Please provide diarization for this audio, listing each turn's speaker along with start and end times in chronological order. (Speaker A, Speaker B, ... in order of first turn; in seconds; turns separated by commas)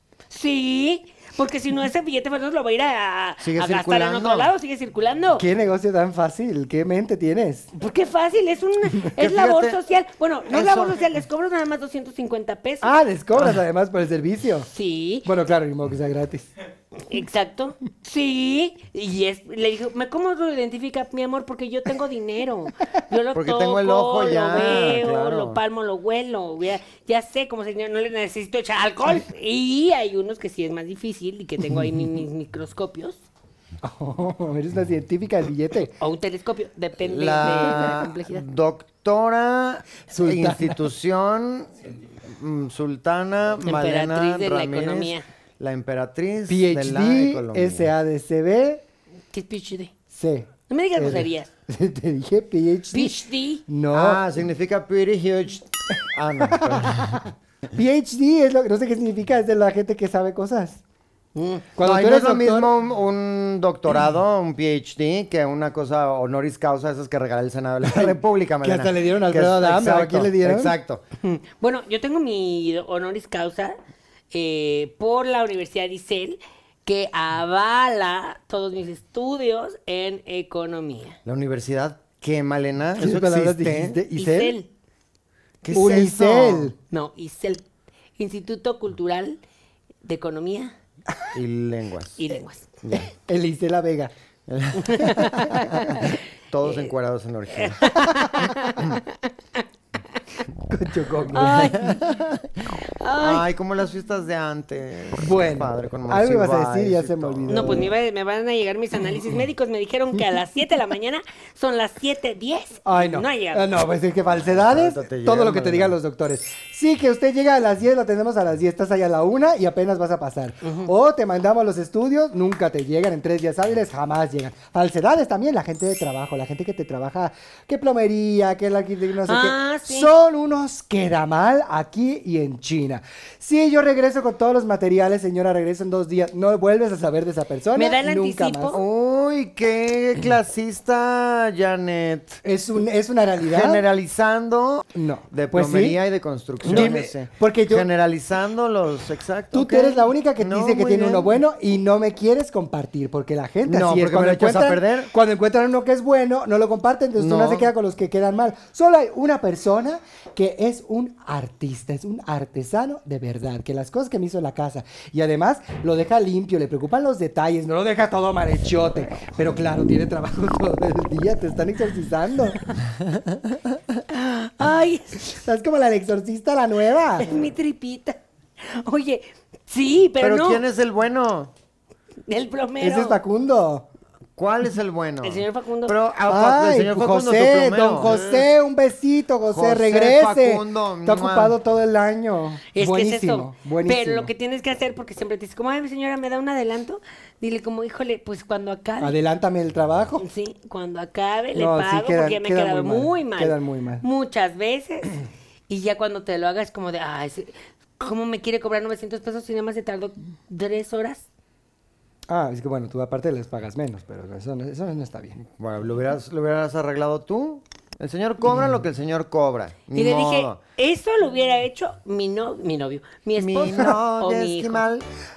Speaker A: 0.3-5.5, Speaker B: 3.4-4.5, Speaker C: 5.4-7.7, Speaker A: 7.8-12.9, Speaker B: 9.2-9.8, Speaker B: 10.5-11.0, Speaker C: 12.8-14.7, Speaker A: 14.7-15.3, Speaker C: 15.2-16.5, Speaker A: 17.0-33.2, Speaker B: 23.3-25.6, Speaker C: 33.8-35.9, Speaker A: 36.0-38.4, Speaker B: 37.1-47.9, Speaker C: 40.1-40.9, Speaker A: 43.6-45.2, Speaker C: 46.5-48.8, Speaker A: 49.3-49.9, Speaker C: 50.1-54.2, Speaker A: 50.7-51.5, Speaker A: 52.9-53.6, Speaker B: 53.9-57.2, Speaker C: 56.5-60.8, Speaker A: 61.3-61.7, Speaker C: 61.8-62.7, Speaker B: 61.8-71.0, Speaker C: 67.8-70.7, Speaker A: 71.2-73.8, Speaker A: 74.3-81.2, Speaker B: 81.2-84.0, Speaker C: 83.0-84.5, Speaker A: 84.1-84.7, Speaker B: 85.6-86.7, Speaker C: 85.7-86.7, Speaker A: 86.9-87.6, Speaker A: 88.2-89.4, Speaker A: 90.0-90.7, Speaker B: 91.3-92.2, Speaker A: 92.2-92.8, Speaker B: 92.8-93.1, Speaker C: 93.3-94.1, Speaker B: 94.5-98.0, Speaker A: 94.8-96.9, Speaker A: 97.5-99.6, Speaker C: 100.7-101.8, Speaker B: 101.3-107.8, Speaker A: 101.3-102.0, Speaker A: 102.9-103.4, Speaker C: 105.2-107.9, Speaker A: 107.5-113.7, Speaker C: 112.8-138.8, Speaker B: 114.5-116.0, Speaker A: 120.6-120.9, Speaker A: 129.2-130.1, Speaker A: 137.7-138.8, Speaker B: 138.7-142.4, Speaker C: 142.4-143.8, Speaker B: 143.5-151.4, Speaker C: 144.9-146.0, Speaker C: 146.6-147.9, Speaker C: 149.5-172.6, Speaker B: 153.7-155.1, Speaker B: 157.2-157.7, Speaker A: 174.1-175.3, Speaker C: 175.3-177.3, Speaker A: 177.2-180.6, Speaker B: 180.2-181.5, Speaker A: 182.3-183.2, Speaker C: 182.8-183.9, Speaker B: 184.4-188.5, Speaker A: 185.2-185.9, Speaker C: 186.3-194.3, Speaker B: 189.5-191.6, Speaker A: 192.7-199.2, Speaker C: 199.0-200.2, Speaker A: 200.2-211.3, Speaker C: 201.5-204.1, Speaker C: 212.3-215.4, Speaker B: 215.4-220.6, Speaker A: 219.9-224.8, Speaker B: 223.4-225.1